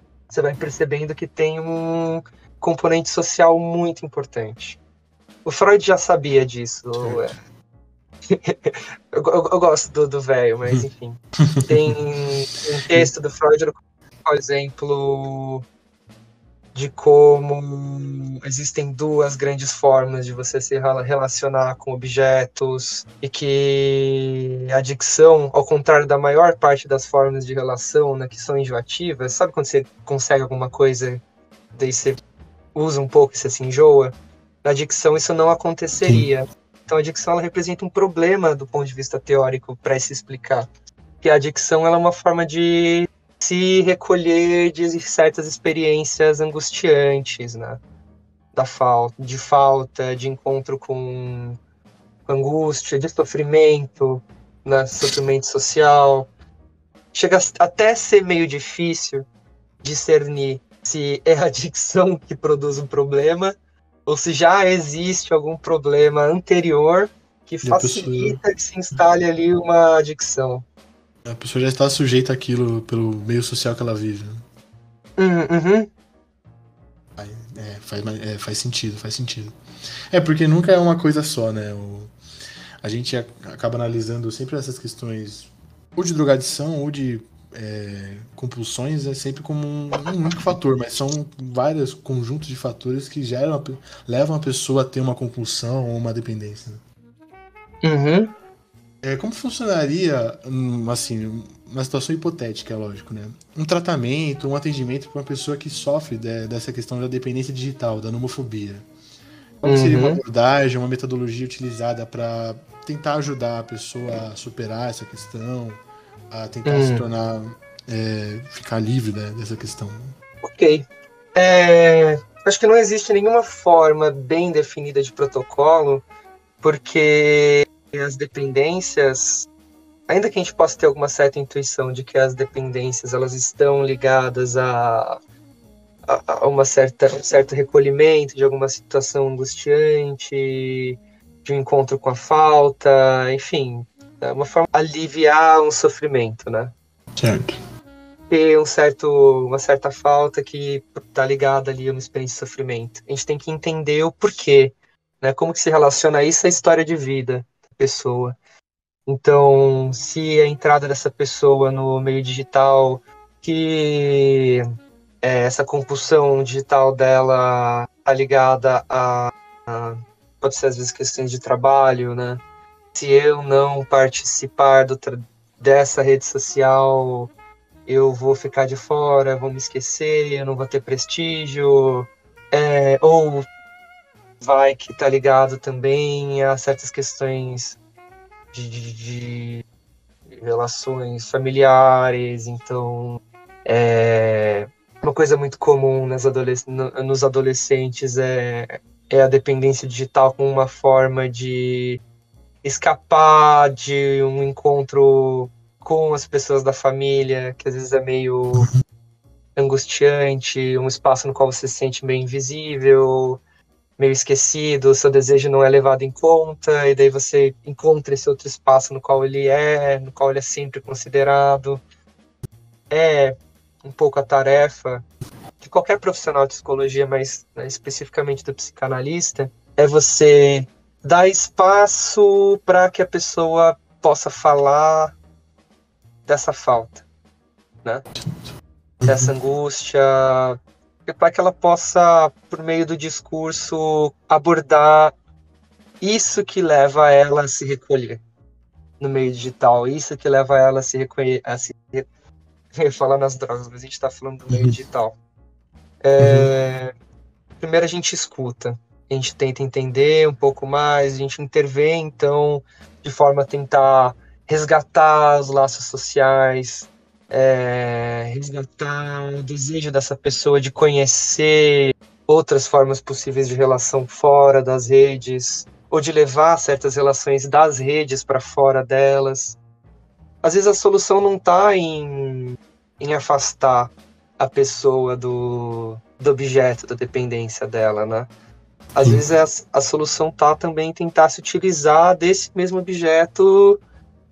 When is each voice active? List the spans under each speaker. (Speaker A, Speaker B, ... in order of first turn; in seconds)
Speaker A: 0.3-4.8, 5.4-7.3, 8.3-15.7, 16.7-31.2, 31.7-32.2, 32.7-40.7, 41.2-47.8, 48.5-51.6, 52.3-56.3, 57.1-59.3, 59.8-63.5, 64.0-70.7, 75.2-75.9, 97.8-98.3, 109.6-110.2, 116.6-117.0, 120.4-126.0, 126.6-129.5, 130.1-135.2, 136.1-146.7, 148.3-158.3, 159.1-164.7, 165.2-172.4, 172.9-177.3, 177.9-183.4, 184.4-187.8, 188.5-189.6, 190.3-202.0, 202.6-208.7, 209.6-213.4, 214.0-221.8, 222.9-225.1, 225.6-235.2, 236.3-237.0, 239.1-245.1, 246.0-248.2, 249.0-252.1, 252.8-255.2, 256.0-256.9, 257.6-279.6, 280.4-288.3, 288.9-293.8
Speaker B: 7.0-7.3, 11.4-11.9, 67.6-68.4, 71.2-74.4, 77.2-79.5, 80.1-82.1, 82.8-96.8, 99.0-108.8, 109.6-115.8, 116.3-120.1, 147.2-147.6, 208.6-208.8, 238.2-238.4, 239.0-239.3, 254.5-254.8, 256.2-256.5